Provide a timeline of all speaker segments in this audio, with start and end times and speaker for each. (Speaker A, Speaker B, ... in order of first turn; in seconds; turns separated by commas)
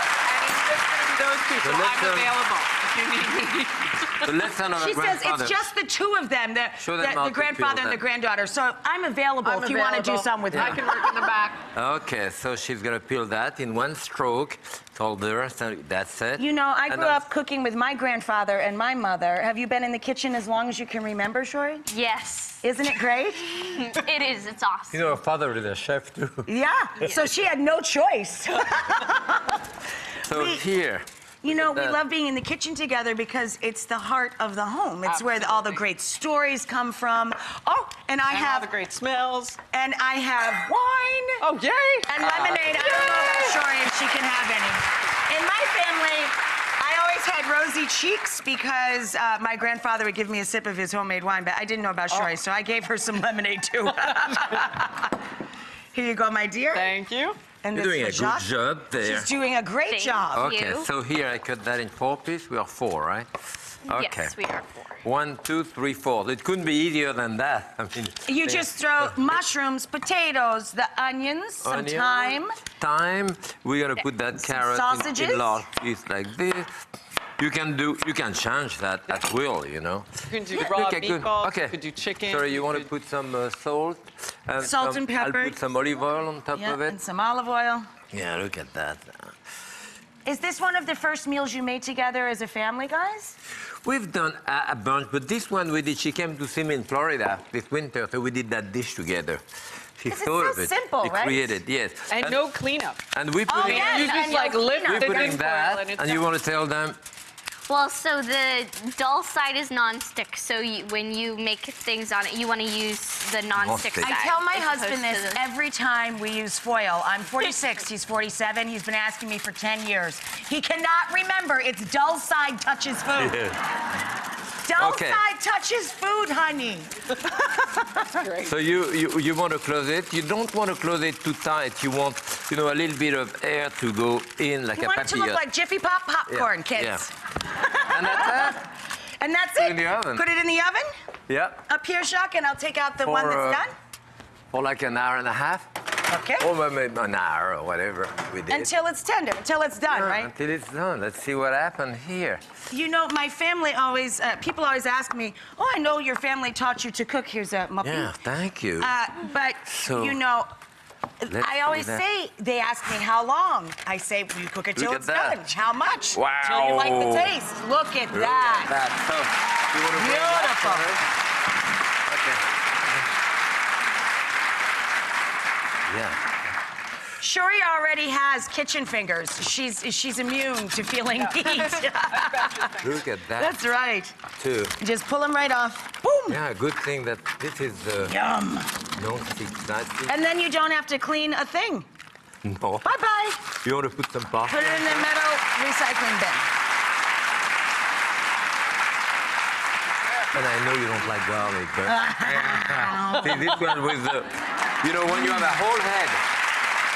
Speaker A: 0.2-4.3, Speaker B: 1.6-2.3, Speaker B: 4.2-5.7, Speaker C: 4.7-11.3, Speaker B: 6.8-8.0, Speaker A: 9.4-11.6, Speaker B: 10.5-10.8, Speaker B: 11.7-17.2, Speaker C: 16.4-21.9, Speaker D: 21.9-22.7, Speaker C: 22.6-23.8, Speaker D: 23.5-25.0, Speaker B: 24.9-26.5, Speaker C: 26.4-29.6, Speaker B: 30.2-32.0, Speaker C: 30.2-30.6, Speaker C: 31.4-38.7, Speaker A: 35.0-35.8, Speaker A: 38.3-39.6, Speaker C: 39.7-41.4, Speaker A: 41.4-43.6, Speaker C: 42.0-55.1, Speaker C: 55.9-56.9, Speaker A: 56.7-57.4, Speaker C: 57.6-60.5, Speaker B: 57.7-59.3, Speaker D: 59.9-60.9, Speaker B: 60.3-63.3, Speaker B: 63.8-64.4, Speaker D: 63.9-65.0, Speaker B: 65.0-69.3, Speaker C: 68.2-72.6, Speaker B: 71.6-76.7, Speaker C: 74.4-75.6, Speaker B: 77.4-87.0, Speaker A: 80.3-82.9, Speaker C: 84.6-85.6, Speaker C: 86.5-87.9, Speaker B: 88.1-89.3, Speaker C: 90.2-93.3, Speaker B: 93.8-99.4, Speaker B: 100.0-102.5, Speaker C: 100.1-101.6, Speaker A: 102.1-103.0, Speaker B: 103.1-107.0, Speaker C: 103.5-105.4, Speaker A: 103.5-106.2, Speaker D: 107.7-115.4, Speaker B: 113.5-114.1, Speaker C: 114.0-123.4, Speaker B: 123.2-123.6, Speaker C: 124.6-128.1, Speaker B: 124.7-125.2, Speaker A: 128.2-128.5, Speaker B: 128.4-135.4, Speaker C: 134.7-140.9, Speaker B: 136.3-137.1, Speaker B: 137.9-138.6, Speaker B: 139.6-140.2, Speaker B: 141.3-141.6, Speaker C: 141.7-143.7, Speaker B: 143.0-143.6, Speaker B: 144.5-145.7, Speaker C: 146.1-146.5, Speaker B: 146.4-148.7, Speaker C: 148.5-150.3, Speaker B: 149.9-152.4, Speaker C: 152.7-158.1, Speaker B: 157.8-158.9, Speaker C: 158.8-160.5, Speaker B: 159.7-160.2, Speaker C: 161.2-168.7, Speaker B: 161.3-162.0, Speaker B: 164.7-165.4, Speaker B: 166.1-167.3, Speaker B: 168.1-171.0, Speaker C: 169.9-170.9, Speaker B: 172.1-172.4, Speaker B: 175.9-176.4, Speaker C: 177.2-182.8, Speaker A: 181.4-182.8, Speaker B: 182.8-183.6, Speaker C: 183.3-184.2, Speaker B: 184.4-184.8, Speaker C: 184.8-186.4, Speaker B: 186.3-188.2, Speaker C: 188.1-188.8, Speaker B: 188.9-190.1, Speaker C: 190.1-191.9, Speaker B: 192.4-192.9, Speaker C: 192.8-193.4, Speaker B: 193.6-195.1, Speaker C: 194.5-196.5, Speaker B: 200.3-206.2, Speaker C: 201.8-203.6